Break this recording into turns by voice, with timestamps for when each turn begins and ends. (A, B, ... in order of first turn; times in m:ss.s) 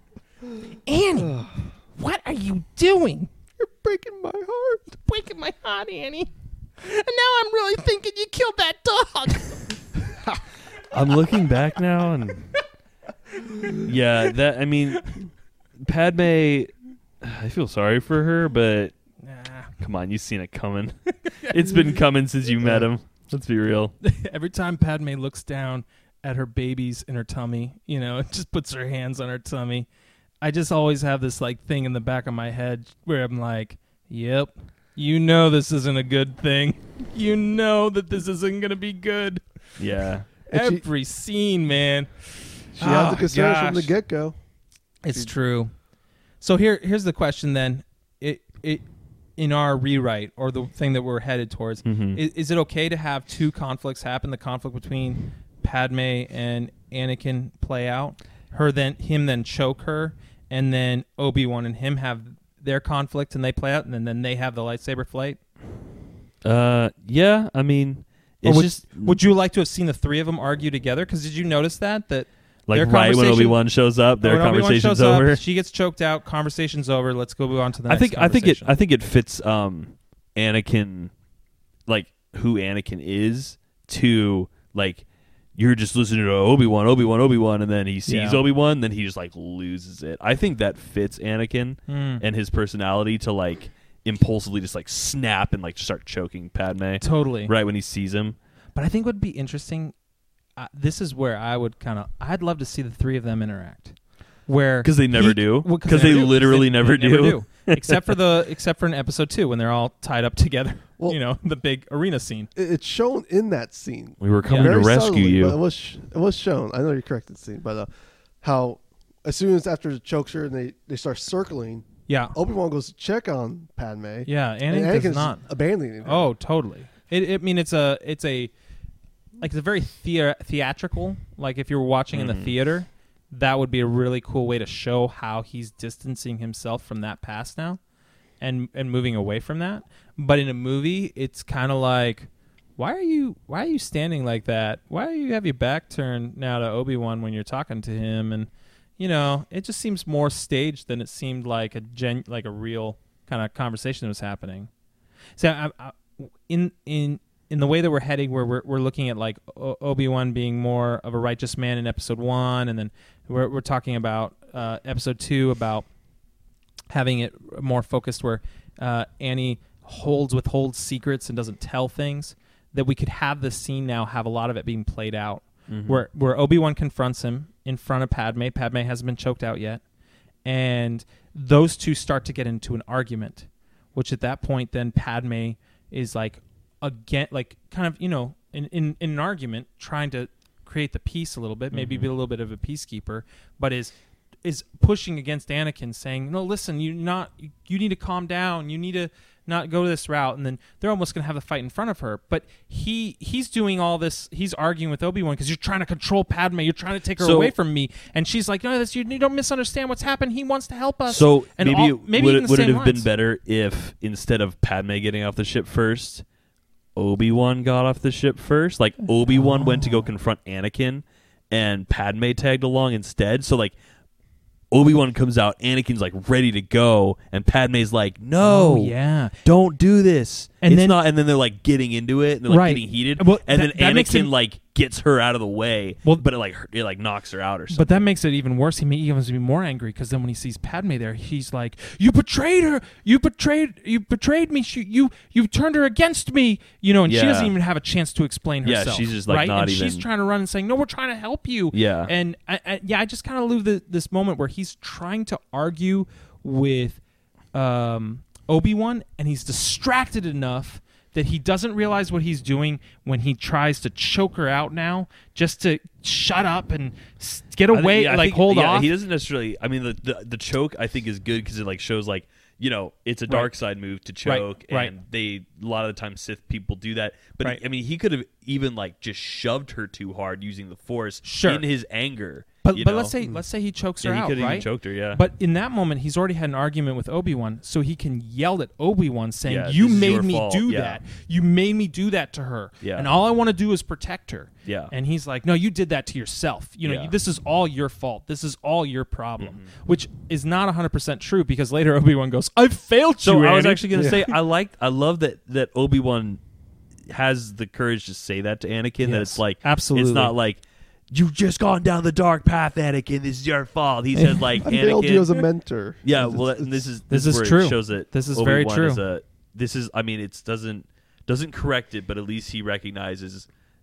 0:00.8-0:03.3 A
0:01.3-0:01.5 B
0:03.6-0:04.9 B
0:04.9-0:06.3 A
0:06.8-0:09.8 A
0:10.9-0:12.6 C
0:13.3-0:13.8 A
0:13.8-0:15.2 C
0:15.0-0:15.2 A
0:15.8-0:18.9 C
0:19.2-0:19.7 A
0:19.8-0:23.9 C
0:21.2-0:21.9 A
0:24.0-0:29.9 A
0:30.4-0:39.8 A
0:39.8-0:40.3 C
0:40.5-0:40.8 B
0:40.5-0:43.9 A
0:42.8-0:44.3 B
0:45.0-0:45.7 A
0:46.4-0:48.8 A
0:49.4-1:05.4 A
0:51.8-0:52.2 C
1:06.4-1:09.2 C
1:08.4-1:13.6 A
1:12.7-1:15.4 C
1:14.2-1:18.8 A
1:17.9-1:21.1 C
1:21.9-1:38.4 C
1:28.1-1:28.4 A
1:31.9-1:32.2 A
1:37.0-1:37.5 A
1:38.7-1:40.0 A
1:40.6-1:52.5 A
1:44.8-1:48.0 C
1:52.5-1:57.9 B
1:54.2-1:55.6 C
1:54.5-1:54.7 A
1:58.4-2:06.3 B
2:02.1-2:02.4 A
2:04.2-2:05.4 A
2:06.0-2:08.5 A
2:09.4-2:17.8 A
2:12.1-2:12.5 C
2:18.4-2:34.7 A
2:35.4-2:45.9 A
2:46.9-2:59.8 A
2:55.7-2:56.0 C
3:00.4-3:33.1 A
3:11.7-3:12.1 C
3:27.2-3:27.5 C
3:31.1-3:36.2 C
3:37.0-3:43.7 C
3:44.7-3:58.0 C
3:48.4-3:49.4 A
3:50.6-3:51.0 A
3:52.5-3:54.3 A
3:57.7-4:17.0 A
4:07.1-4:07.5 C
4:08.6-4:10.0 C
4:11.7-4:12.1 C
4:17.5-4:28.9 A
4:27.7-4:43.1 C
4:34.2-4:34.9 A
4:41.2-4:41.6 A
4:42.6-5:04.4 A
4:44.0-4:45.2 C
4:49.5-4:51.0 C
4:52.8-4:53.1 C
4:54.6-4:54.9 C
4:56.8-4:57.1 C
4:59.4-4:59.7 C
5:03.2-5:06.4 C
5:03.9-5:04.2 B
5:07.1-5:15.4 C
5:09.0-5:10.3 A
5:14.1-5:14.6 A
5:14.6-5:16.8 B
5:16.0-5:23.5 C
5:17.1-5:19.0 A